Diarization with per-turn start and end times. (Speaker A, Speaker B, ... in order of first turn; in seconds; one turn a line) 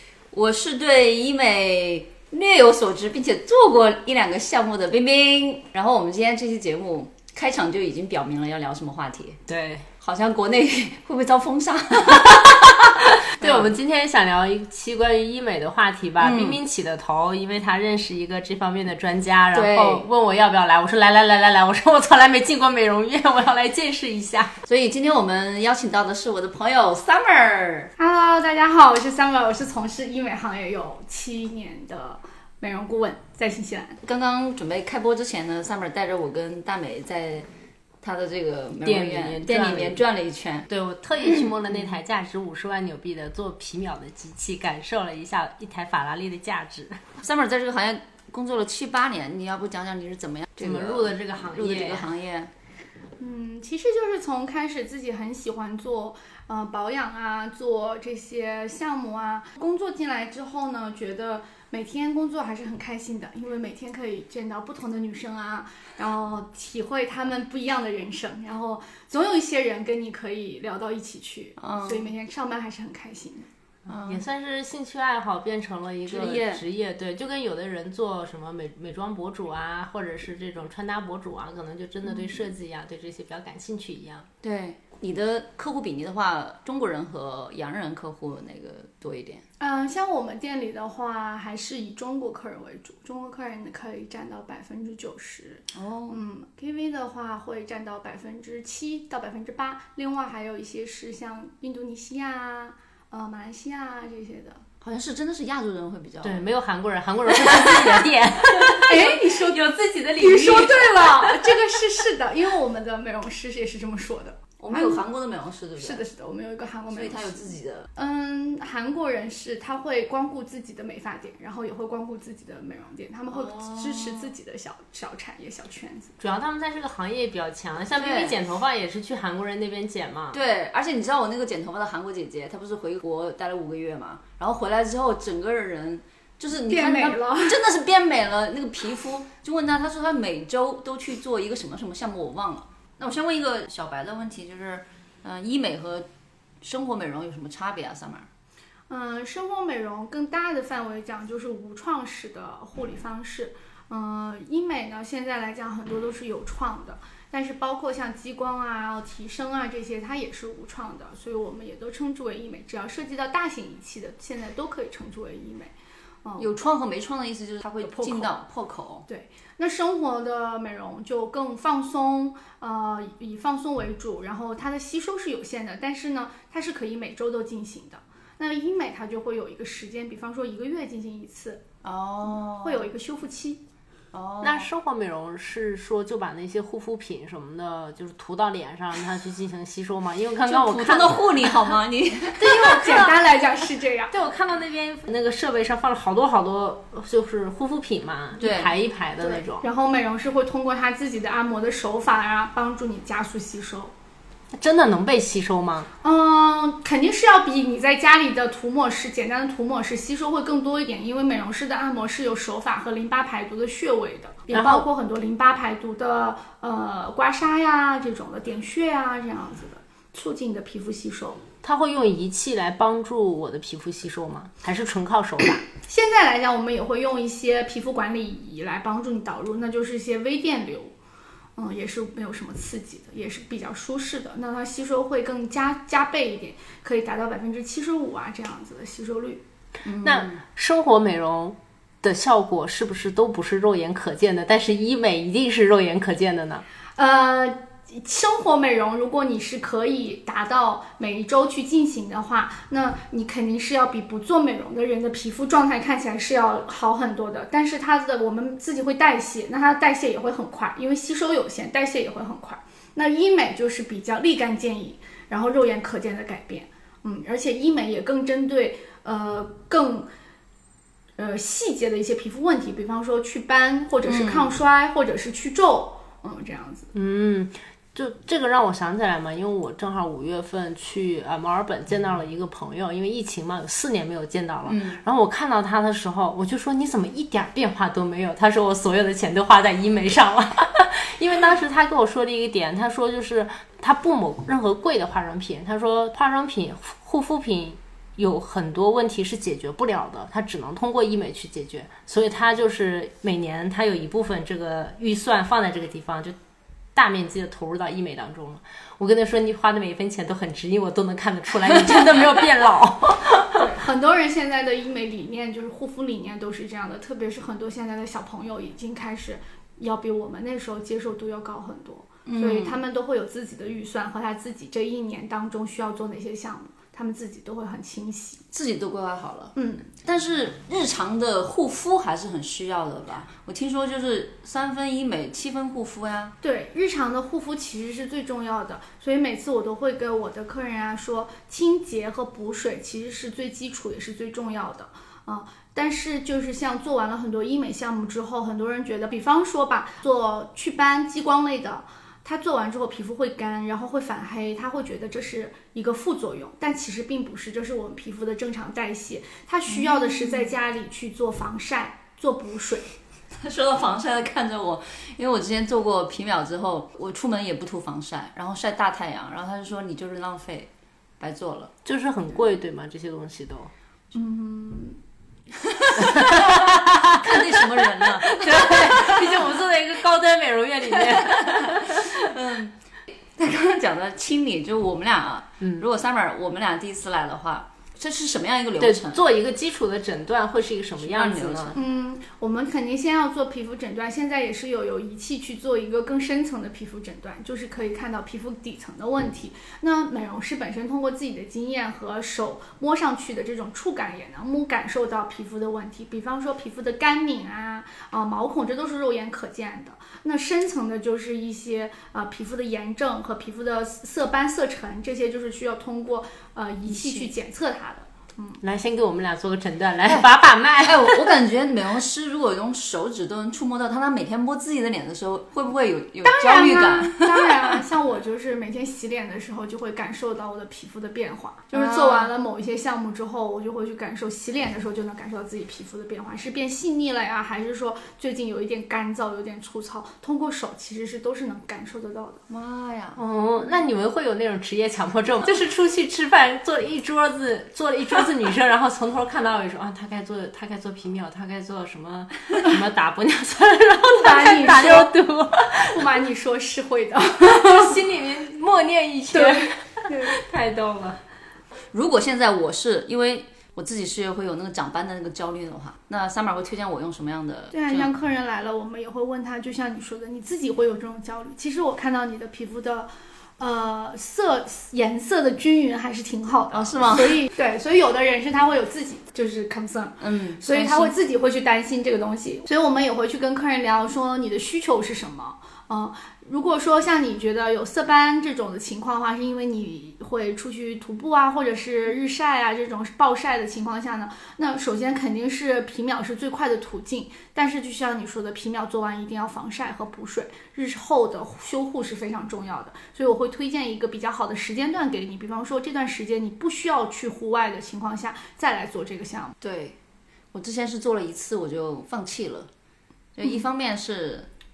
Speaker A: 0.3-9.4
Speaker B: 9.5-9.9
Speaker A: 10.0-13.7
Speaker B: 12.2-24.5
Speaker A: 16.2-16.6
Speaker A: 19.5-20.1
Speaker A: 24.7-27.9
Speaker C: 28.0-34.0
Speaker A: 34.0-37.5
Speaker A: 38.0-40.7
Speaker B: 38.9-40.0
Speaker B: 40.7-47.0
Speaker A: 47.2-52.5
Speaker B: 50.6-52.1
Speaker C: 53.2-73.5
Speaker A: 71.6-72.1
Speaker A: 73.9-74.2
Speaker B: 73.9-84.3
Speaker A: 76.1-76.6
Speaker A: 84.4-89.4
Speaker C: 89.6-104.6
Speaker A: 95.7-96.2
Speaker A: 104.8-106.4
Speaker B: 106.2-111.5
Speaker A: 107.3-108.1
Speaker A: 108.6-108.9
Speaker C: 108.7-109.6
Speaker C: 110.2-115.0
Speaker A: 114.6-116.1
Speaker C: 115.8-126.1
Speaker A: 116.9-117.9
Speaker A: 123.3-124.3
Speaker B: 126.2-130.4
Speaker A: 128.0-128.4
Speaker A: 130.3-146.1
Speaker C: 136.7-137.6
Speaker A: 146.6-148.3
Speaker C: 148.9-165.7
Speaker C: 166.2-166.5
Speaker A: 166.4-169.1
Speaker C: 167.8-168.4
Speaker C: 169.1-181.6
Speaker A: 181.8-182.9
Speaker C: 182.6-183.6
Speaker A: 184.1-184.7
Speaker B: 184.4-191.7
Speaker A: 190.4-192.8
Speaker C: 192.4-194.1
Speaker B: 192.5-193.1
Speaker B: 194.1-199.7
Speaker A: 198.4-198.7
Speaker C: 199.2-203.9
Speaker B: 204.5-205.9
Speaker C: 206.0-221.4
Speaker B: 214.5-214.8
Speaker B: 221.6-225.7
Speaker C: 225.9-230.9
Speaker C: 231.6-239.4
Speaker A: 239.8-240.4
Speaker B: 240.0-246.6
Speaker C: 247.0-270.1
Speaker C: 271.2-276.9
Speaker A: 274.1-274.5
Speaker B: 276.9-306.4
Speaker A: 284.7-285.0
Speaker B: 306.9-313.7
Speaker C: 313.5-328.4
Speaker A: 322.3-322.8
Speaker A: 328.5-336.4
Speaker C: 329.6-329.9
Speaker C: 336.4-362.9
Speaker A: 359.7-360.5
Speaker A: 363.4-371.7
Speaker B: 371.9-373.7
Speaker C: 374.1-375.0
Speaker A: 375.6-379.5
Speaker B: 376.0-382.3
Speaker A: 380.9-382.7
Speaker A: 383.4-389.2
Speaker B: 385.6-385.9
Speaker B: 388.8-391.8
Speaker A: 391.0-391.8
Speaker C: 391.8-418.6
Speaker A: 416.9-417.3
Speaker B: 418.6-421.4
Speaker A: 420.8-427.8
Speaker C: 426.2-442.4
Speaker A: 431.7-432.3
Speaker A: 442.5-443.2
Speaker B: 443.2-456.0
Speaker C: 454.1-455.1
Speaker C: 455.9-458.0
Speaker B: 457.4-461.2
Speaker C: 459.3-460.4
Speaker A: 461.9-468.1
Speaker C: 467.7-509.6
Speaker A: 476.7-477.5
Speaker A: 480.2-481.1
Speaker A: 509.6-510.0
Speaker A: 510.5-512.7
Speaker A: 513.4-514.5